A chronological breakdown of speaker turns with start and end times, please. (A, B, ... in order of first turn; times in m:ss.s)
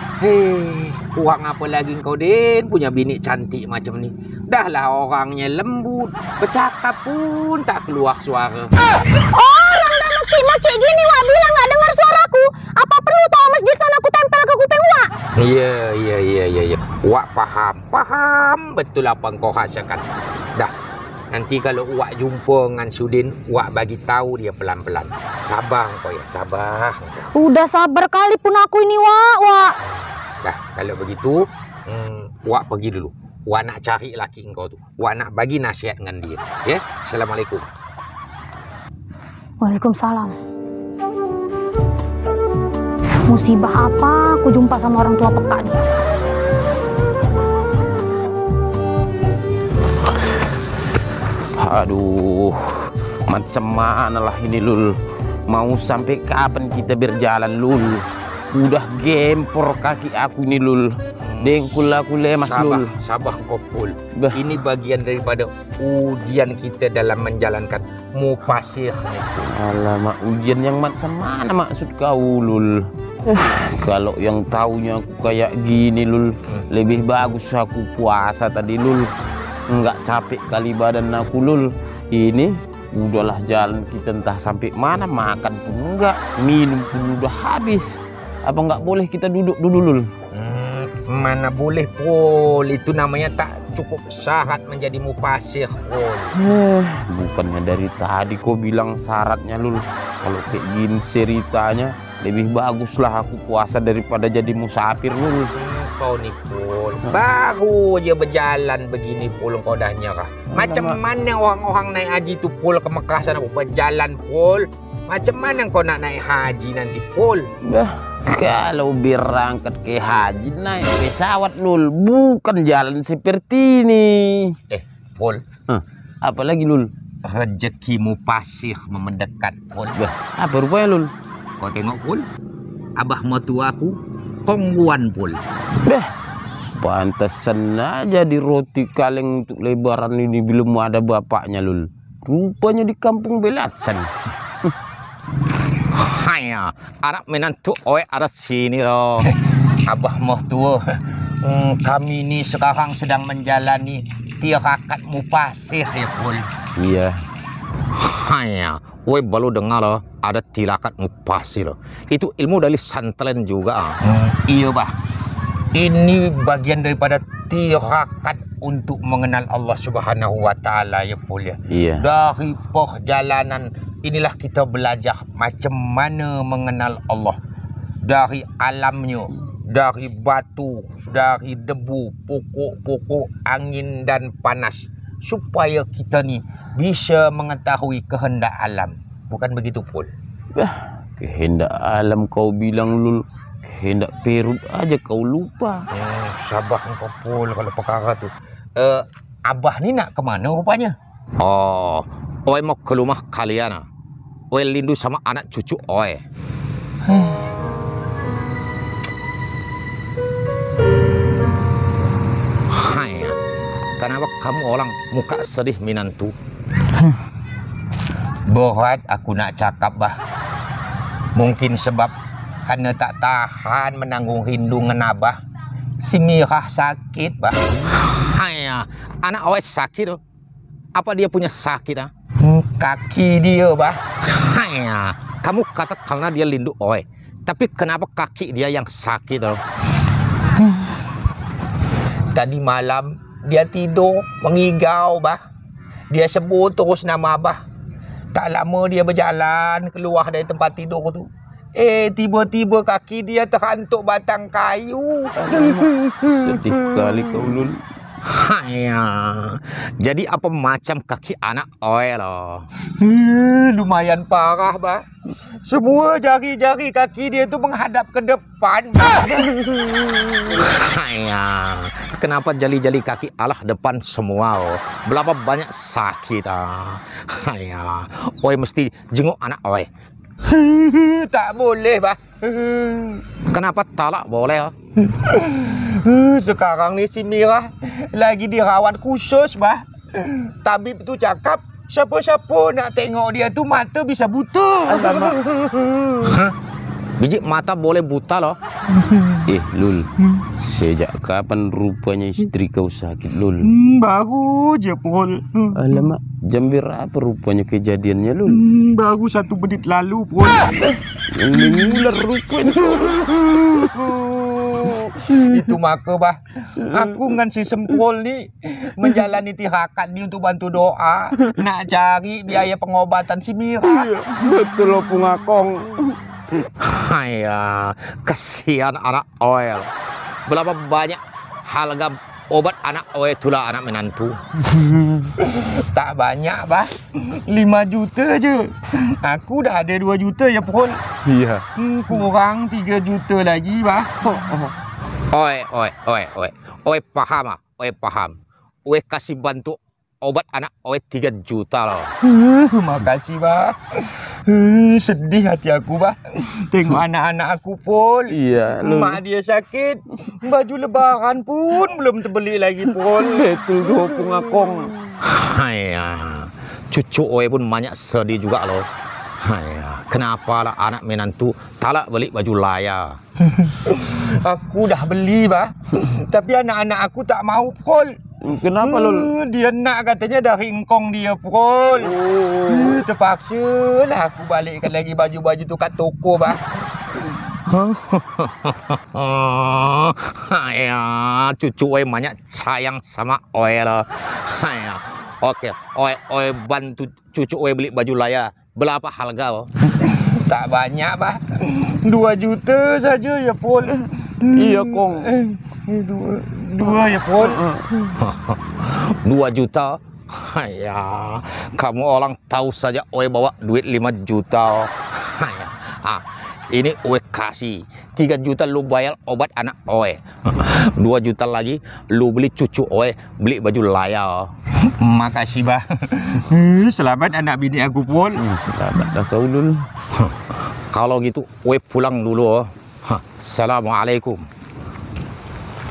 0:00.2-0:08.7 A
0:09.2-0:15.1 B
0:15.4-0:20.0 A
0:21.3-0:27.1 A
0:27.3-0:29.7 B
0:30.4-0:37.7 A
0:39.6-0:40.4 B
0:43.3-0:45.8 B
0:51.6-1:02.9 C
1:01.2-1:01.6 A
1:02.4-1:09.6 A
1:04.2-1:04.6 C
1:09.5-1:19.1 C
1:19.7-1:30.1 C
1:30.3-1:36.4 A
1:36.3-1:45.5 C
1:45.5-1:57.5 A
1:50.5-1:51.0 C
1:57.6-2:04.6 C
2:04.7-2:05.4 A
2:05.7-2:06.9 C
2:07.2-2:10.0 A
2:10.0-2:11.1 C
2:11.6-2:12.3 A
2:13.0-2:15.4 A
2:15.9-2:16.1 C
2:16.8-2:24.1 C
2:26.0-2:29.3 A
2:29.9-2:30.8 A
2:31.4-2:36.5 A
2:36.8-2:37.2 C
2:38.0-2:44.9 A
2:45.8-2:57.4 A
2:51.7-2:52.0 C
2:58.0-3:10.1 A
3:10.6-3:15.9 C
3:15.9-3:23.8 A
3:24.5-3:26.2 A
3:27.1-3:27.4 A
3:32.7-3:33.4 A
3:34.0-3:36.3 A
3:38.5-3:40.2 A
3:41.4-3:42.1 A
3:42.7-3:45.4 A
3:46.0-3:50.2 A
3:51.0-3:59.6 A
4:02.3-4:05.4 A
4:06.1-4:07.6 A
4:08.3-4:17.6 A
4:15.4-4:17.8 C
4:18.3-4:25.0 A
4:25.6-4:39.9 A
4:40.4-4:56.6 A
4:54.9-4:55.4 C
4:57.2-4:59.5 A
4:59.5-5:03.7 C
5:03.6-5:06.1 A
5:05.8-5:08.6 C
5:08.5-5:10.9 A
5:10.8-5:13.7 C
5:11.5-5:12.1 A
5:12.8-5:24.1 A
5:23.8-5:26.6 C
5:26.8-5:29.9 A
5:30.5-5:34.4 A
5:35.4-5:41.0 A
5:41.2-5:41.7 C
5:41.8-5:44.1 A
5:44.2-5:44.8 C
5:45.3-6:04.0 A
5:58.3-5:59.2 C
6:03.1-6:05.1 C
6:05.2-6:08.9 A
6:09.4-7:08.4 A
6:18.4-6:19.3 C
6:22.0-6:23.0 C
6:44.6-6:45.3 C
6:47.5-6:47.8 C
7:08.4-7:09.9 C
7:10.9-7:14.4 A